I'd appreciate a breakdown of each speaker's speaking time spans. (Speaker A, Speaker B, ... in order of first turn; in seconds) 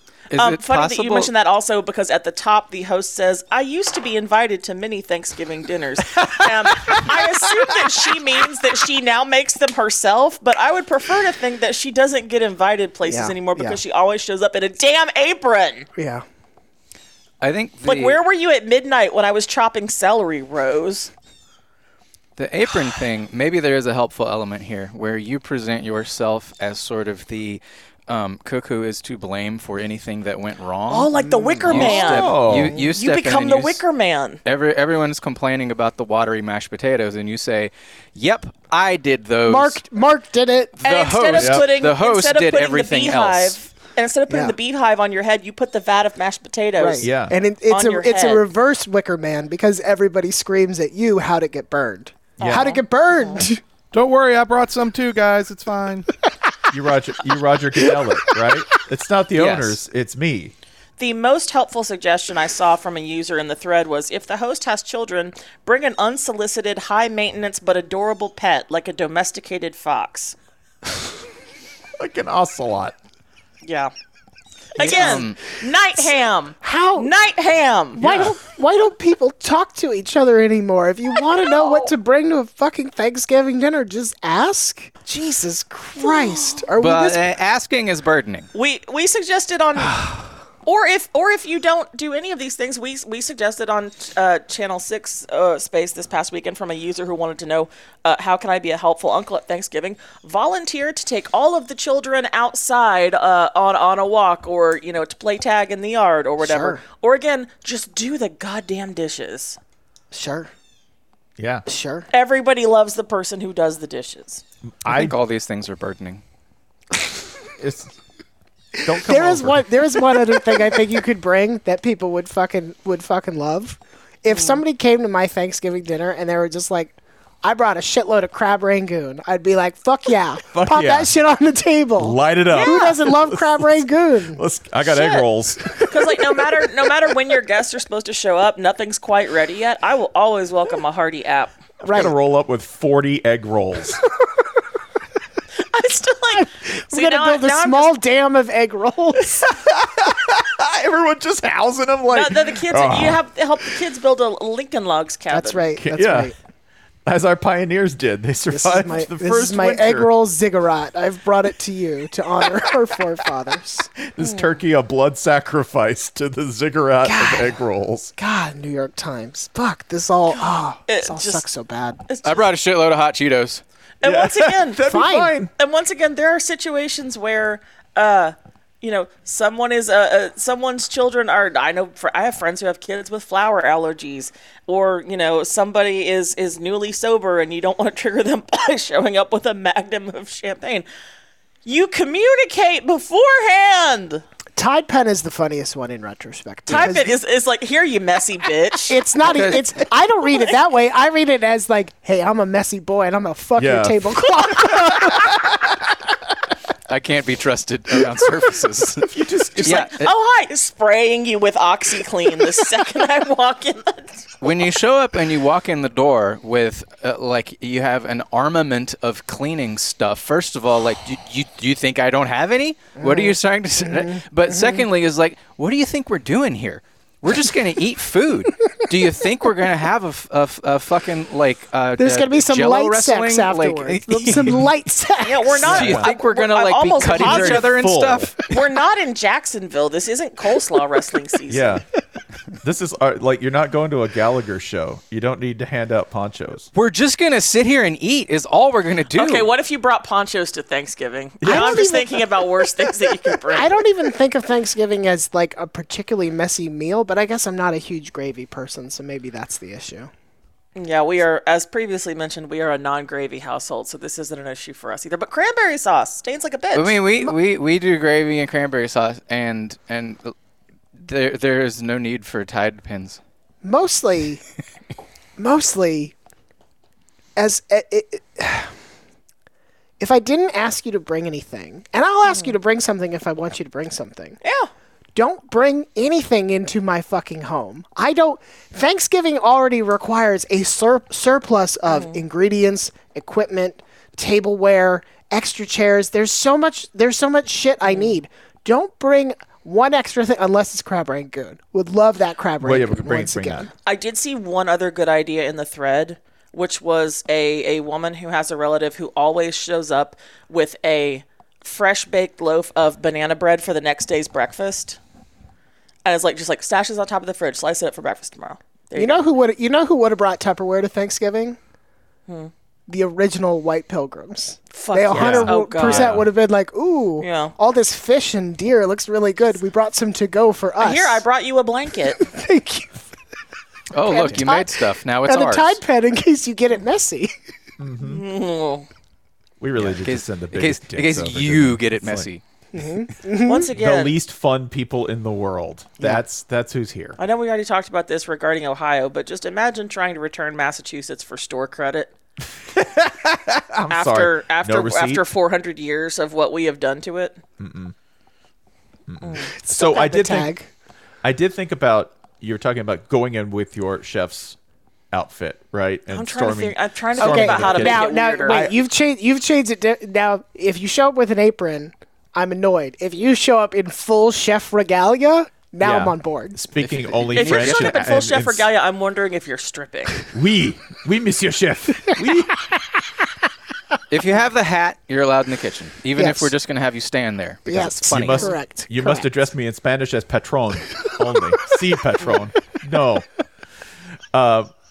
Speaker A: 0.3-1.3, 17.4-18.2, 22.4-31.1, 31.6-33.8, 34.4-39.8, 40.8-43.5, 59.3-59.8, 74.8-75.4, 86.8-88.5, 114.8-116.2, 172.2-173.6, 199.2-199.6, 206.9-210.1, 214.4-234.7, 235.7-238.5, 246.7-249.5, 266.7-270.3, 270.9-273.2, 333.9-335.8, 339.8-342.4, 376.8-378.0, 384.1-388.5
Speaker B: 0.3-15.9, 17.8-21.1, 30.9-34.4, 40.8-47.1, 47.7-48.4, 52.4-53.4, 61.0-70.3, 73.6-73.9, 74.8-78.0, 86.0-86.6, 88.5-90.0, 90.6-109.6, 112.1-114.4, 124.3-124.6, 132.5-132.9, 134.8-135.3, 135.8-141.5, 145.6-148.0, 152.1-155.7, 170.4-171.4, 172.1-172.4, 174.0-174.8, 175.6-190.8, 191.6-194.2, 196.7-199.0, 209.6-214.2, 235.2-237.7, 238.5-241.8, 249.1-253.7, 260.8-267.0, 284.4-284.7, 291.9-292.2, 297.9-298.1, 303.8-315.0, 316.0-319.2, 324.7-326.1, 327.2-327.5, 330.8-332.2, 338.0-338.9, 343.4-344.1, 347.2-352.1, 353.9-357.4, 359.2-359.5, 366.1-368.7, 377.3-380.2
Speaker C: 6.2-7.3, 31.7-32.8, 41.4-41.6, 47.0-47.3, 52.4-52.8, 56.7-60.5, 72.0-72.9, 78.0-78.4, 111.4-111.7, 114.8-115.1, 117.6-117.9, 118.8-120.0, 130.5-131.1, 132.0-136.4, 141.8-144.0, 149.2-153.2, 155.8-156.3, 157.0-160.1, 164.0-168.1, 174.0-175.5, 203.6-205.6, 209.1-209.9, 235.7-236.1, 237.0-238.3, 241.5-241.8, 242.6-246.7, 251.4-251.8, 302.6-303.7, 325.1-326.3, 337.8-338.2, 339.6-342.3, 343.7-347.2, 352.6-355.2, 357.6-357.9, 359.1-360.5, 361.2-364.6, 365.1-368.8, 375.8-378.7, 380.3-382.6, 387.9-393.2, 394.3-394.7
Speaker D: 13.1-13.8, 15.9-16.2, 31.2-31.9, 39.5-40.8, 44.3-44.5, 46.8-53.6, 76.6-77.1, 78.0-87.2, 106.4-106.8, 110.1-110.5, 111.7-112.1, 118.8-134.4, 141.8-142.1, 146.4-149.5, 155.3-156.3, 158.5-163.9, 167.0-167.6, 168.2-172.0, 174.8-175.3, 194.6-197.1, 198.9-205.5, 223.0-224.8, 232.0-235.8, 251.4-252.4, 253.5-260.1, 273.6-274.4, 275.4-276.1, 277.4-278.7, 280.0-284.4, 285.1-303.7, 318.9-321.6, 322.9-331.2, 332.1-333.0, 334.0-337.3, 342.7-343.7, 359.5-360.7, 367.2-376.6, 386.1-386.5, 387.7-389.3
Speaker E: 53.9-56.1